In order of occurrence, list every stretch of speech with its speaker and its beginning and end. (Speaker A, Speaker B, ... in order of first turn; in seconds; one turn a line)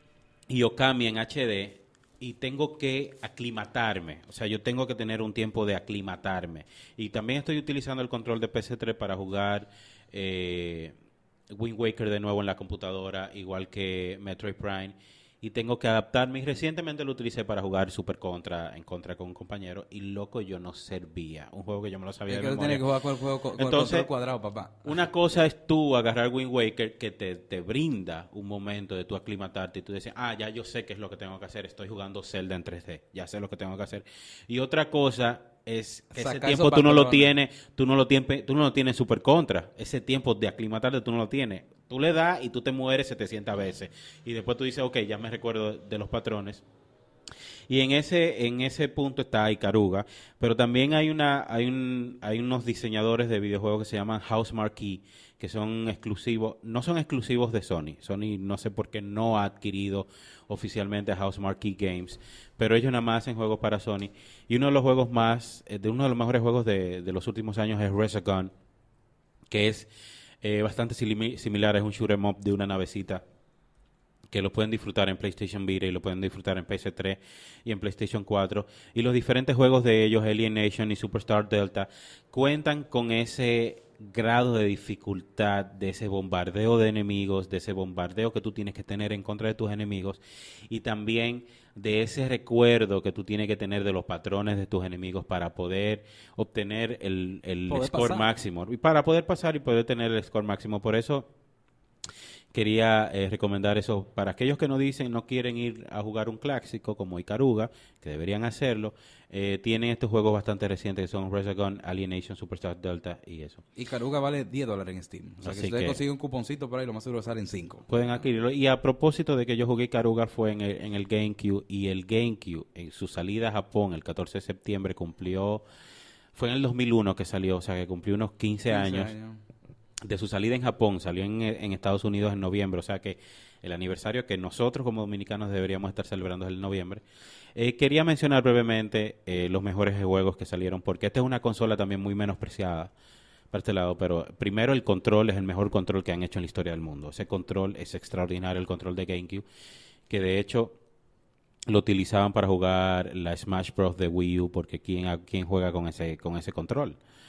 Speaker A: 0.5-10.9
Speaker A: 11.5-22.8
Speaker B: 22.3-25.0
Speaker A: 23.6-24.1
Speaker A: 24.8-46.6
Speaker B: 36.1-37.3
Speaker A: 47.7-68.5
Speaker A: 69.5-69.9
Speaker A: 70.4-73.2
Speaker A: 74.3-101.3
Speaker B: 97.7-98.3
Speaker A: 102.5-113.6
Speaker B: 113.8-118.2
Speaker A: 115.4-116.0
Speaker A: 117.9-125.6
Speaker A: 126.3-129.1
Speaker B: 128.7-129.4
Speaker A: 130.0-137.0
Speaker A: 137.5-142.9
Speaker A: 143.5-149.4
Speaker A: 150.1-150.8
Speaker A: 151.7-157.0